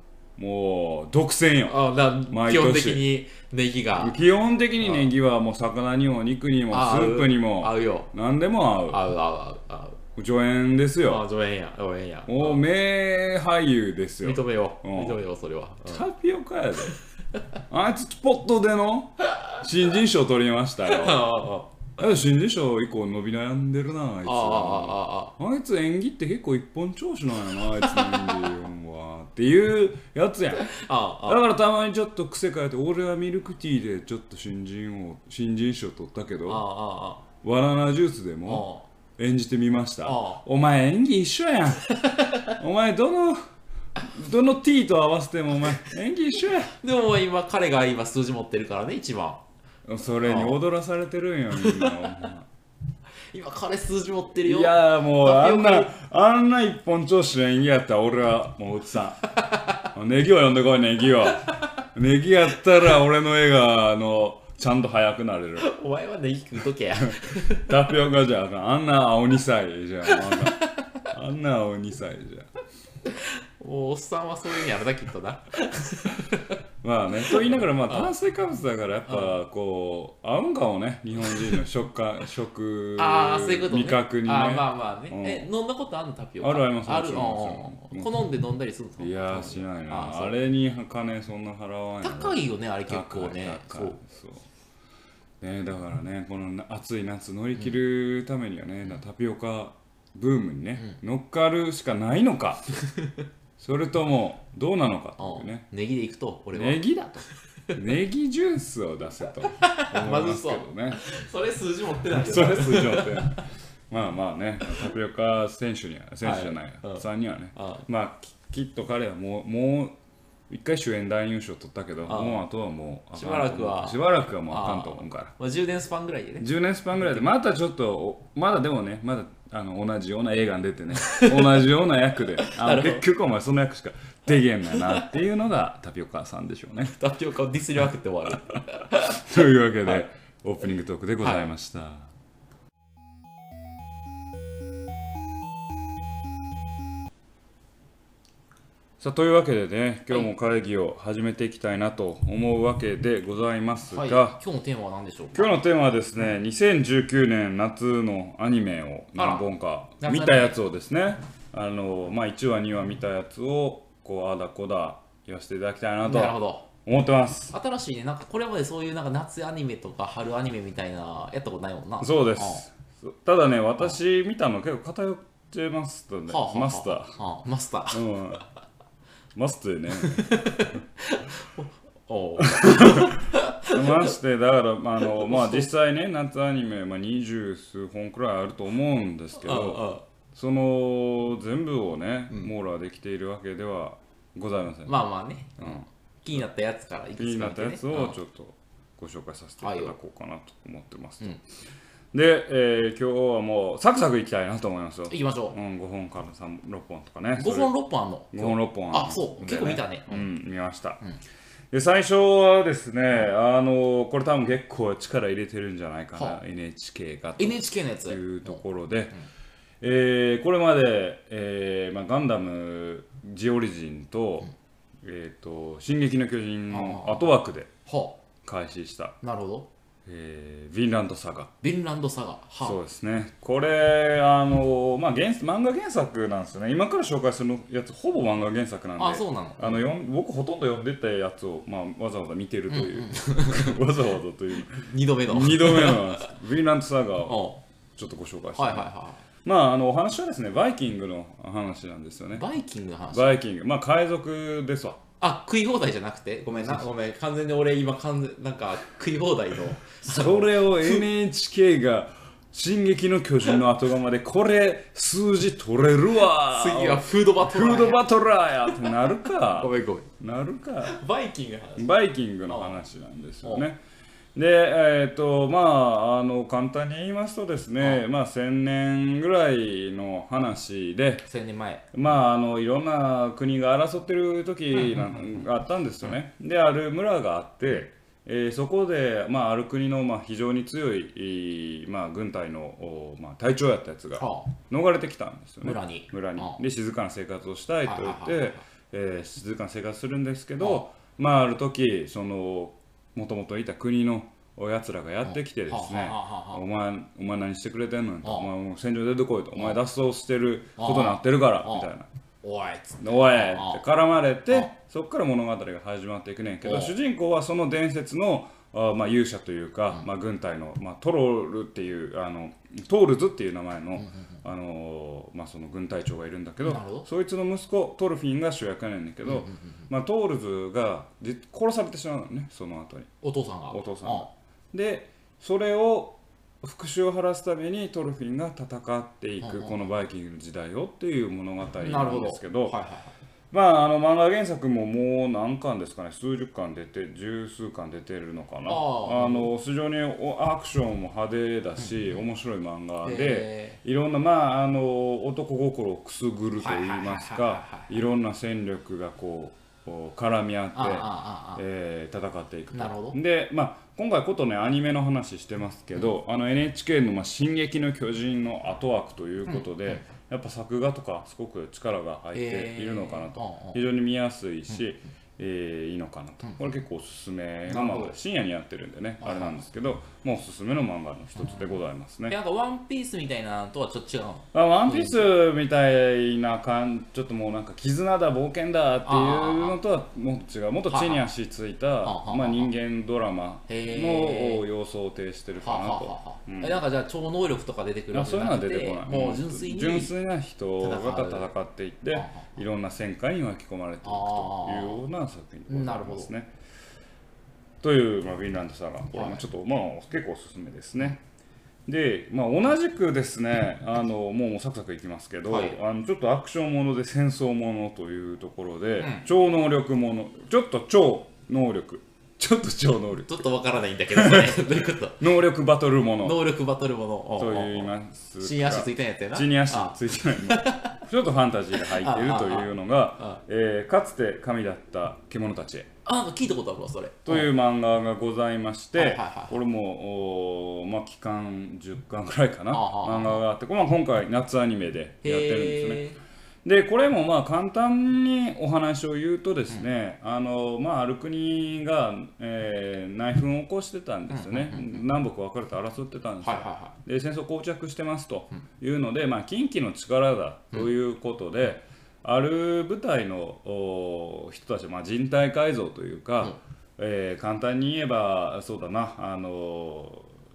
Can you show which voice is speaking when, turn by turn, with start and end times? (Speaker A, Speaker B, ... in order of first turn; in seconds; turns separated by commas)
Speaker A: 0.4-3.0, Speaker B: 1.7-4.2, Speaker A: 4.0-9.0, Speaker B: 4.8-5.1, Speaker B: 6.7-8.1, Speaker B: 8.9-10.0, Speaker A: 10.2-11.2, Speaker B: 11.0-12.6, Speaker A: 12.3-15.2, Speaker B: 14.2-16.1, Speaker A: 15.9-16.9, Speaker A: 17.7-21.3, Speaker B: 20.9-21.8, Speaker A: 22.0-30.7, Speaker B: 24.2-25.4, Speaker B: 27.8-28.4, Speaker B: 30.6-31.4, Speaker A: 31.2-36.7, Speaker B: 36.5-37.2, Speaker A: 37.4-41.9, Speaker B: 38.5-38.9, Speaker B: 40.0-40.4, Speaker B: 42.0-42.5, Speaker A: 42.5-43.4, Speaker A: 44.0-46.7, Speaker B: 46.7-49.4, Speaker A: 49.9-52.5, Speaker B: 50.2-50.6, Speaker B: 51.5-52.3, Speaker B: 53.3-55.9, Speaker A: 54.4-59.3, Speaker B: 59.3-59.9, Speaker A: 59.9-65.7, Speaker B: 65.6-67.8, Speaker A: 67.1-72.5, Speaker B: 70.1-71.1, Speaker B: 73.1-76.6, Speaker A: 76.8-85.5, Speaker B: 77.2-78.1, Speaker B: 79.1-79.4, Speaker B: 81.3-81.5, Speaker B: 83.0-90.4, Speaker A: 86.4-88.1, Speaker A: 89.0-94.5, Speaker B: 92.0-94.0, Speaker A: 95.4-102.7, Speaker B: 102.8-103.1, Speaker A: 103.6-105.7, Speaker B: 105.2-106.8, Speaker A: 106.5-111.0, Speaker B: 109.5-113.4, Speaker A: 112.1-120.0, Speaker B: 116.2-117.9, Speaker A: 120.5-125.3, Speaker B: 122.1-122.4, Speaker B: 123.1-126.5, Speaker A: 126.4-137.0, Speaker B: 130.9-131.7, Speaker B: 132.4-133.1, Speaker B: 134.7-135.1, Speaker B: 136.9-139.2, Speaker A: 139.1-142.1, Speaker B: 141.2-141.5, Speaker A: 149.0-154.4, Speaker B: 153.9-155.6, Speaker A: 155.3-167.6, Speaker B: 159.2-159.5, Speaker B: 160.0-160.6, Speaker B: 166.0-166.7, Speaker B: 167.5-172.7, Speaker A: 172.0-177.2, Speaker B: 176.3-178.2, Speaker A: 177.9-178.4, Speaker A: 179.3-180.4, Speaker B: 179.9-184.1, Speaker A: 182.4-195.0, Speaker B: 185.1-185.7, Speaker B: 189.4-190.0, Speaker B: 194.9-198.2, Speaker A: 195.6-195.8, Speaker A: 197.2-201.4, Speaker B: 199.6-200.0, Speaker A: 202.1-207.7, Speaker B: 205.1-205.6, Speaker B: 207.4-210.3, Speaker A: 208.3-211.0, Speaker A: 211.7-219.1, Speaker B: 217.4-218.6, Speaker A: 219.8-224.5, Speaker A: 225.0-227.7, Speaker B: 226.7-227.3, Speaker B: 227.9-228.2, Speaker A: 228.4-229.2, Speaker B: 229.2-229.7, Speaker A: 230.1-231.5, Speaker B: 231.6-232.8, Speaker A: 232.6-248.9, Speaker B: 239.0-239.9, Speaker B: 242.7-243.9, Speaker B: 244.8-246.3, Speaker B: 247.3-247.6, Speaker B: 248.6-249.2, Speaker A: 249.4-252.5, Speaker B: 252.3-253.4, Speaker A: 253.1-255.0, Speaker B: 255.2-261.0, Speaker A: 256.6-256.8, Speaker A: 260.0-271.0, Speaker B: 266.4-268.0, Speaker B: 269.5-270.1, Speaker B: 270.8-271.9, Speaker A: 271.8-273.8, Speaker B: 272.5-272.8, Speaker A: 274.4-281.3, Speaker B: 281.3-281.9, Speaker A: 281.9-312.1, Speaker B: 294.1-294.5, Speaker B: 295.6-296.6, Speaker B: 297.9-298.6, Speaker B: 300.6-300.8, Speaker B: 305.2-306.6, Speaker B: 308.2-308.5, Speaker B: 310.8-311.9, Speaker B: 312.4-313.8, Speaker A: 313.0-333.1, Speaker B: 316.6-316.9, Speaker B: 326.6-327.1, Speaker B: 329.2-329.9, Speaker B: 333.2-334.3, Speaker A: 333.7-342.8, Speaker B: 339.4-339.8, Speaker B: 341.8-343.1, Speaker A: 343.5-382.4, Speaker B: 348.7-349.5, Speaker B: 351.8-352.1, Speaker B: 353.0-353.8, Speaker B: 356.6-357.9, Speaker B: 360.8-361.6, Speaker B: 362.7-363.2, Speaker B: 369.5-370.0, Speaker B: 372.3-373.8, Speaker B: 377.7-378.1, Speaker B: 379.2-379.6, Speaker B: 382.3-385.2, Speaker A: 384.5-396.8, Speaker B: 389.1-389.8, Speaker B: 390.9-391.3, Speaker B: 392.0-392.7, Speaker B: 393.7-394.6, Speaker B: 395.6-400.1, Speaker A: 398.1-406.5, Speaker B: 400.8-401.5, Speaker B: 402.1-402.5, Speaker B: 404.0-405.0, Speaker B: 405.7-406.3, Speaker A: 407.8-411.2, Speaker B: 409.1-409.4, Speaker A: 411.9-423.4, Speaker B: 415.5-415.8, Speaker B: 419.0-419.3, Speaker B: 423.3-425.2, Speaker A: 424.1-426.4, Speaker B: 426.2-431.0, Speaker A: 427.4-435.9, Speaker B: 431.7-433.4, Speaker B: 436.1-437.5, Speaker A: 437.3-446.1, Speaker B: 439.0-439.6, Speaker B: 442.7-443.4, Speaker B: 445.2-446.2, Speaker A: 446.6-470.3, Speaker B: 454.3-455.0, Speaker B: 456.4-456.9